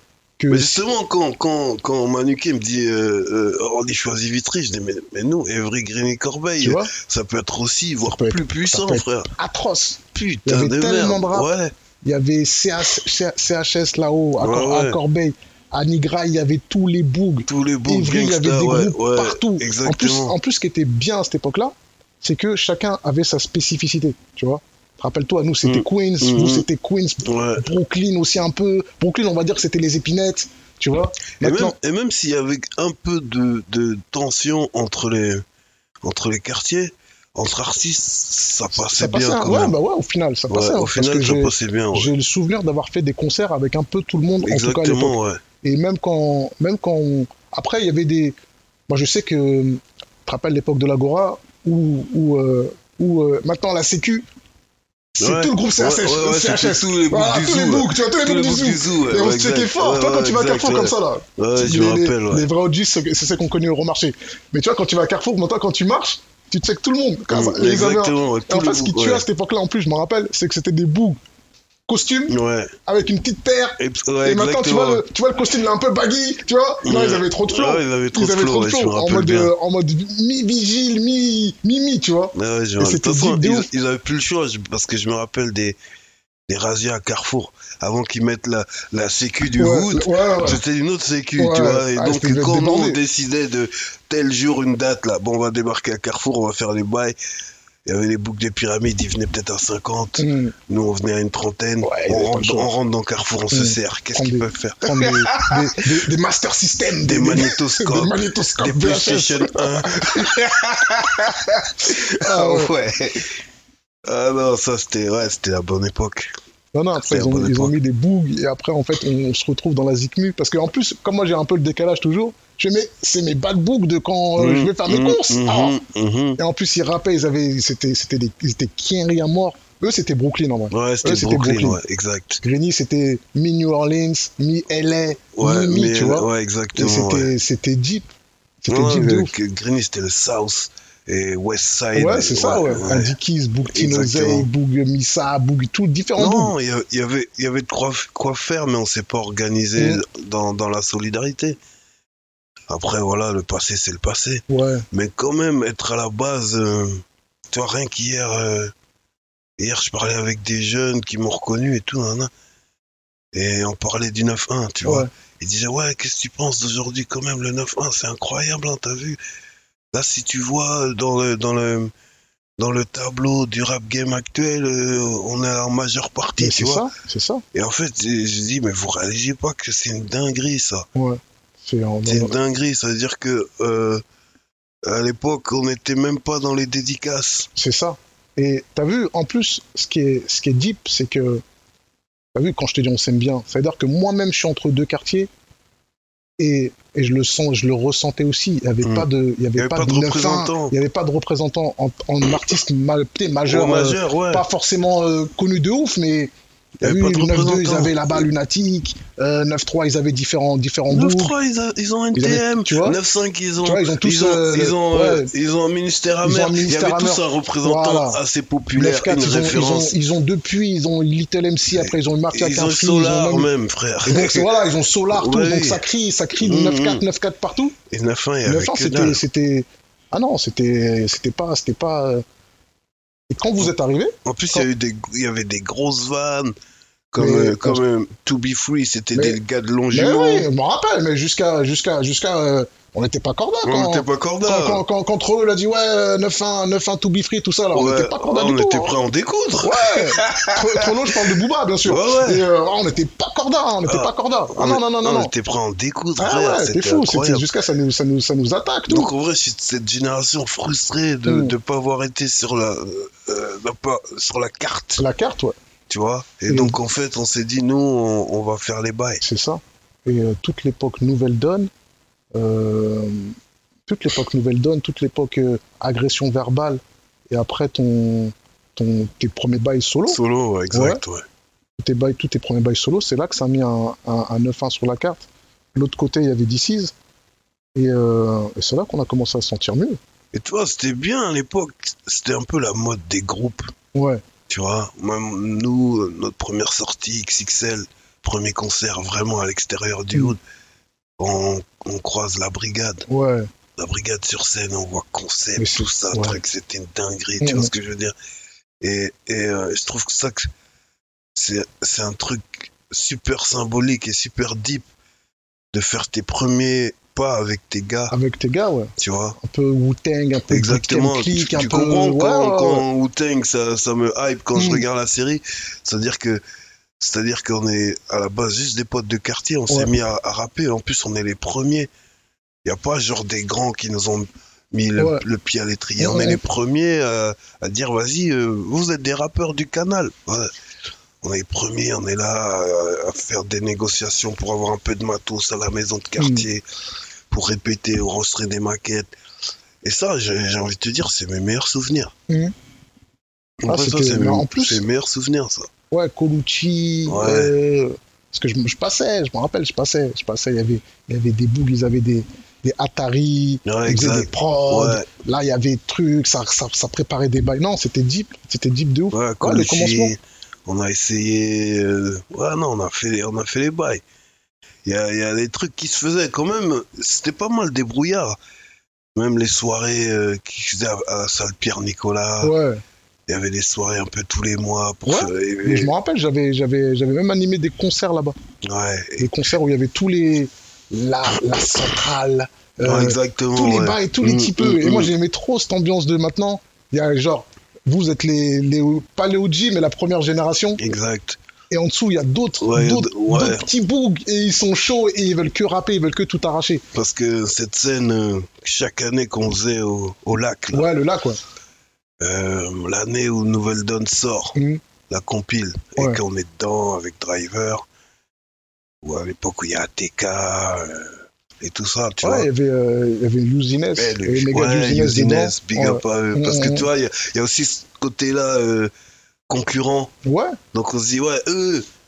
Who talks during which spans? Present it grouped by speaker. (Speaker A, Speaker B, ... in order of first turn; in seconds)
Speaker A: 0.4-0.8, 6.6-6.9, 8.0-11.5, 12.0-31.7, 38.8-48.4, 48.9-54.2, 55.1-71.2, 71.9-83.7, 89.6-90.6, 91.4-93.0, 100.2-100.5, 101.8-102.7, 103.5-110.3, 111.8-112.7, 116.7-125.8, 126.4-131.8, 132.4-138.1, 138.6-139.3, 141.9-146.5, 149.8-150.0, 154.5-154.8, 164.8-165.1, 176.4-177.4, 180.9-182.3, 187.6-191.4, 192.3-195.3, 196.4-206.3, 206.8-211.3, 212.1-213.0, 213.6-215.3, 216.2-218.2, 218.7-223.5, 224.1-227.8, 228.4-232.2, 233.3-234.7, 237.2-237.8, 239.9-248.9, 249.6-255.3, 256.2-259.1, 261.3-261.5, 265.0-265.6, 266.5-266.8, 269.2-271.7, 272.3-273.3, 273.9-280.2, 280.7-281.0, 281.8-286.9, 287.7-290.0, 293.9-294.2, 303.1-303.5, 305.6-306.4, 307.4-307.7, 318.1-322.8, 324.5-324.8, 329.7-329.9, 335.0-335.2, 336.0-336.4, 346.2-346.5, 353.7-354.8, 355.9-370.1, 382.4-382.8, 385.1-388.4, 389.2-400.8, 401.7-406.8, 410.7-411.4, 414.6-414.8, 422.2-426.9, 430.2-430.6
Speaker B: 0.5-9.3, 10.1-11.7, 14.4-15.0, 17.5-20.4, 25.6-26.7, 27.2-27.6, 31.4-35.4, 36.0-39.7, 40.5-42.1, 44.4-45.4, 55.2-62.5, 67.3-69.2, 72.3-72.7, 73.8-75.0, 76.8-79.5, 82.3-85.8, 86.5-97.2, 97.8-105.6, 107.0-113.3, 114.0-116.3, 117.0-117.7, 124.4-126.4, 130.7-132.4, 135.3-137.3, 138.7-143.1, 143.7-144.5, 146.2-151.6, 152.7-158.7, 159.6-162.3, 163.3-169.2, 169.9-171.9, 172.6-176.8, 177.5-180.9, 182.1-184.0, 184.8-187.5, 198.8-200.7, 203.5-204.4, 206.8-208.2, 210.9-219.9, 221.7-224.5, 225.1-225.8, 226.4-227.0, 227.9-229.2, 234.2-236.5, 237.1-240.5, 243.6-244.8, 247.7-252.4, 253.8-257.5, 258.9-265.0, 265.9-269.2, 280.1-281.2, 290.3-293.7, 294.5-300.4, 301.2-303.1, 303.8-308.1, 308.8-310.5, 311.3-314.9, 315.7-318.1, 319.0-319.4, 320.5-326.4, 327.0-331.9, 332.6-340.5, 341.2-346.6, 347.3-349.1, 349.8-352.1, 353.6-355.7, 357.1-357.5, 363.6-365.1, 369.1-374.0, 374.8-378.4, 379.1-382.5, 383.3-385.9, 388.6-389.3, 392.8-395.1, 400.8-401.4, 402.6-403.7, 406.9-410.9, 412.2-414.6, 415.1-417.8, 419.0-422.5, 423.9-428.9, 429.5-430.1, 430.7-431.9